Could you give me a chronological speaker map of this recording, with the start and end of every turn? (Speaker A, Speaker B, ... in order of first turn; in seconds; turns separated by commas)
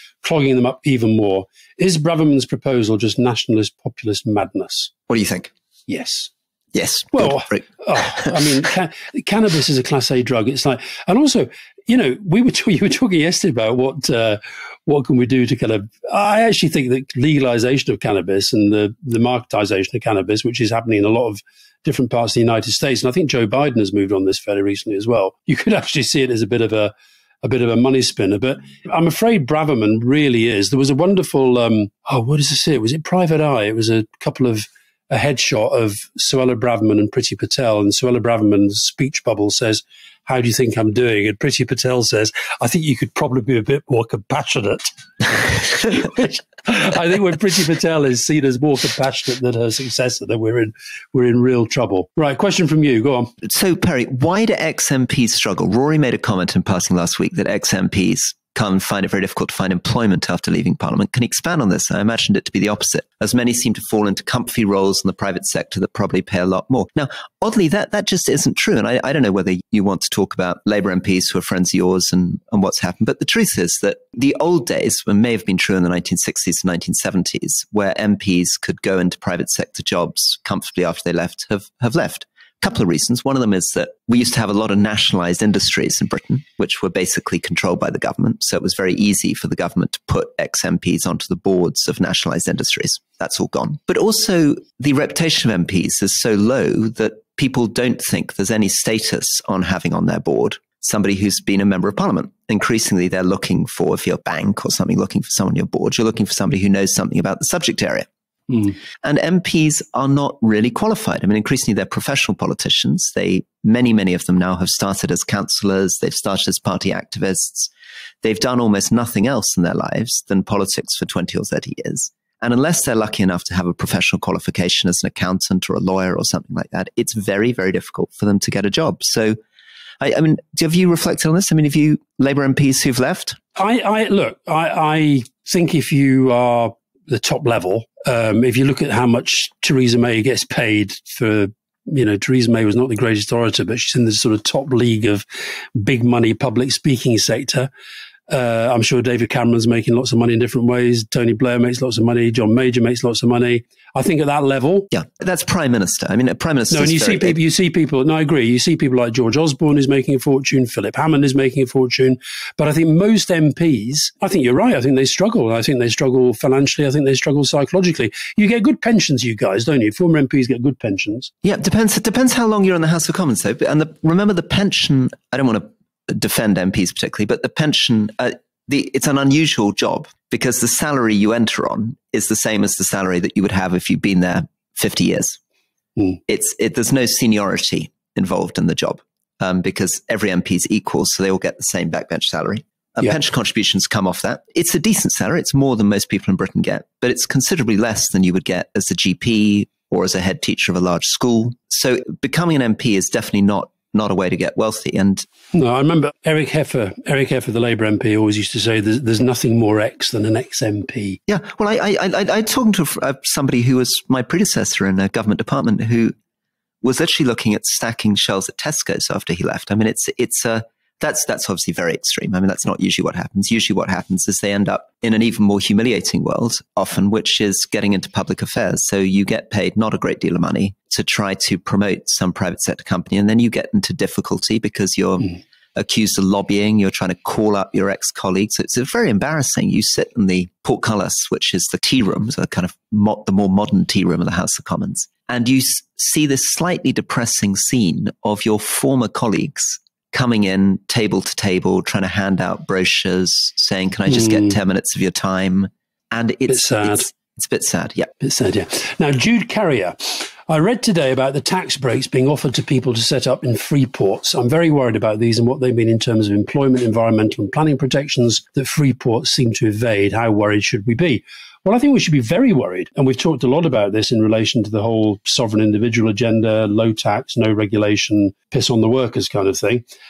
Speaker A: 0.2-4.9, Speaker B: 5.1-5.5, Speaker A: 5.9-6.3, Speaker B: 6.7-8.3, Speaker A: 7.1-53.3, Speaker B: 53.4-108.1, Speaker B: 109.0-117.7, Speaker B: 118.2-129.4, Speaker B: 130.0-133.4, Speaker A: 133.6-147.7, Speaker A: 148.3-154.9, Speaker B: 154.9-157.4, Speaker A: 156.7-171.3, Speaker B: 171.4-185.4, Speaker B: 186.3-205.3, Speaker A: 205.5-211.2, Speaker B: 211.3-216.1, Speaker B: 216.8-258.1, Speaker A: 254.1-254.6, Speaker A: 256.5-257.1, Speaker A: 258.2-279.8